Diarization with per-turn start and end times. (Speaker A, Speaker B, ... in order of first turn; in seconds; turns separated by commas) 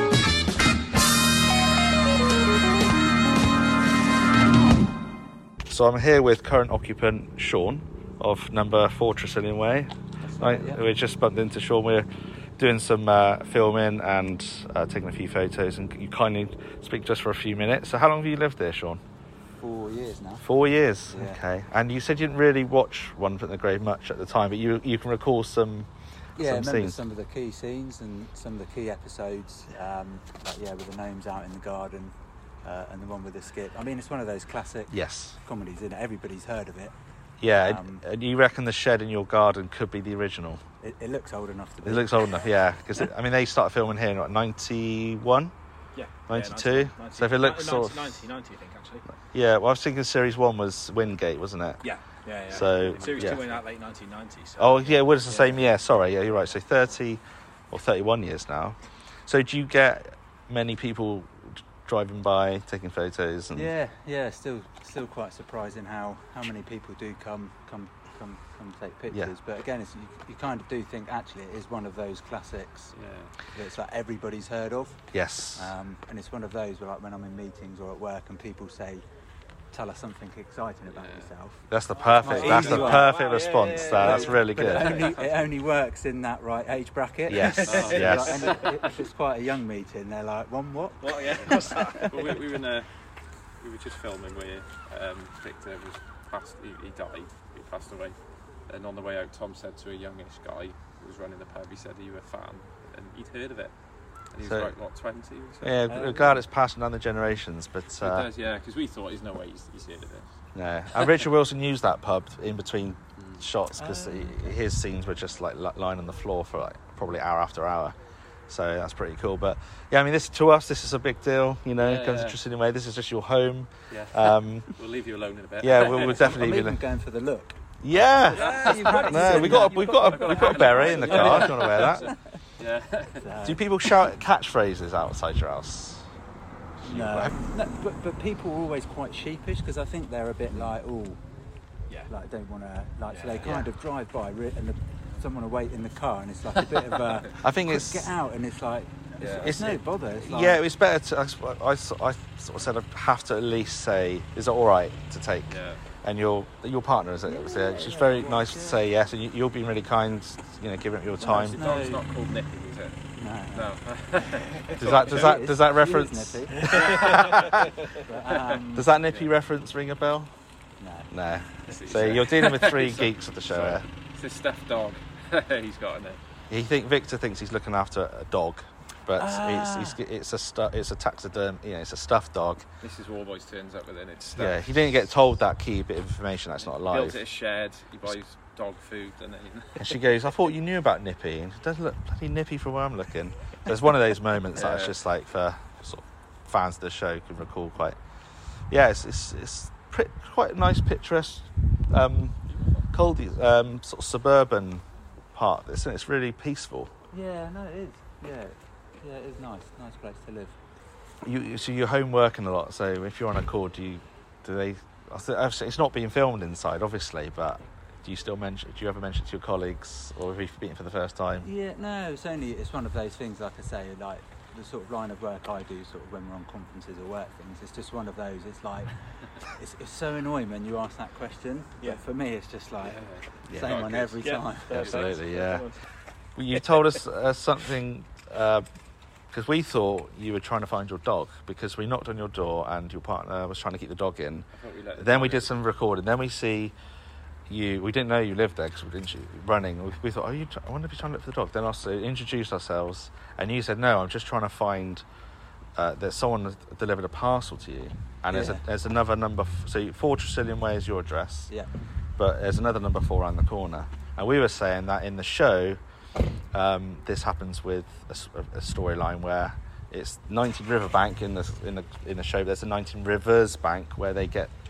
Speaker A: 5.7-12.1, Speaker B: 10.2-10.8, Speaker A: 12.6-19.0, Speaker B: 19.6-20.5, Speaker A: 20.4-27.0, Speaker B: 21.1-21.4, Speaker B: 26.4-36.9, Speaker A: 34.9-35.4, Speaker A: 37.4-40.6, Speaker B: 37.5-38.0, Speaker B: 40.8-42.2, Speaker A: 41.8-45.5, Speaker C: 45.9-49.0, Speaker A: 46.3-48.3, Speaker A: 49.3-51.8, Speaker C: 51.8-55.6, Speaker A: 52.5-53.4, Speaker D: 52.7-53.6, Speaker A: 54.6-63.7, Speaker B: 63.5-72.9, Speaker D: 72.9-73.3, Speaker B: 73.5-75.0, Speaker A: 75.1-75.7, Speaker B: 75.5-79.0, Speaker B: 79.7-81.7, Speaker D: 80.9-81.3, Speaker A: 81.7-85.0, Speaker C: 81.9-85.2, Speaker B: 82.2-83.1, Speaker D: 82.5-82.9, Speaker B: 83.8-92.2, Speaker A: 87.3-88.5, Speaker C: 87.6-88.7, Speaker D: 87.7-88.7, Speaker C: 91.0-92.4, Speaker D: 92.0-92.9, Speaker D: 93.6-98.2, Speaker D: 98.7-103.7, Speaker D: 104.3-105.9, Speaker A: 104.4-104.7, Speaker A: 105.6-108.3, Speaker B: 105.9-106.4, Speaker D: 108.0-110.3, Speaker A: 110.5-118.0, Speaker B: 113.7-114.6, Speaker A: 118.5-124.7, Speaker D: 121.8-122.4, Speaker D: 124.7-126.4, Speaker A: 125.6-126.8, Speaker B: 126.1-132.2, Speaker A: 127.8-132.1, Speaker D: 128.3-133.2, Speaker C: 128.5-129.3, Speaker C: 131.4-131.8, Speaker B: 133.2-133.6, Speaker A: 133.4-136.0, Speaker C: 136.8-137.3, Speaker B: 136.8-141.2, Speaker B: 142.1-150.6, Speaker C: 143.1-143.7, Speaker A: 147.4-148.1, Speaker D: 149.2-149.6, Speaker A: 149.4-155.5, Speaker D: 155.5-155.8, Speaker A: 156.0-161.6, Speaker B: 157.2-158.8, Speaker B: 161.2-162.0, Speaker D: 161.3-163.0, Speaker B: 163.2-163.8, Speaker D: 163.5-165.3, Speaker A: 164.8-167.7, Speaker B: 165.0-166.7, Speaker C: 166.6-168.0, Speaker D: 166.7-167.5, Speaker B: 167.9-168.9, Speaker D: 168.3-169.3, Speaker A: 168.7-170.3, Speaker B: 170.8-171.1, Speaker A: 171.1-173.9, Speaker D: 171.7-176.2, Speaker A: 176.5-182.6, Speaker B: 179.2-180.0, Speaker D: 182.8-184.7, Speaker A: 184.3-187.2, Speaker D: 186.6-189.9, Speaker A: 189.8-198.0, Speaker D: 194.5-195.0, Speaker A: 198.7-202.4, Speaker D: 202.5-202.8, Speaker A: 202.9-206.9, Speaker B: 207.1-210.6, Speaker A: 211.2-221.5, Speaker B: 221.4-233.0, Speaker D: 232.9-233.2, Speaker A: 233.5-233.8, Speaker B: 233.5-234.9, Speaker C: 233.7-235.8, Speaker D: 234.7-235.2, Speaker A: 234.8-235.7, Speaker A: 236.3-238.7, Speaker A: 239.3-246.7, Speaker D: 244.5-245.5, Speaker A: 247.5-255.0, Speaker A: 255.8-261.5, Speaker B: 258.3-258.6, Speaker A: 262.2-265.8, Speaker A: 266.5-274.5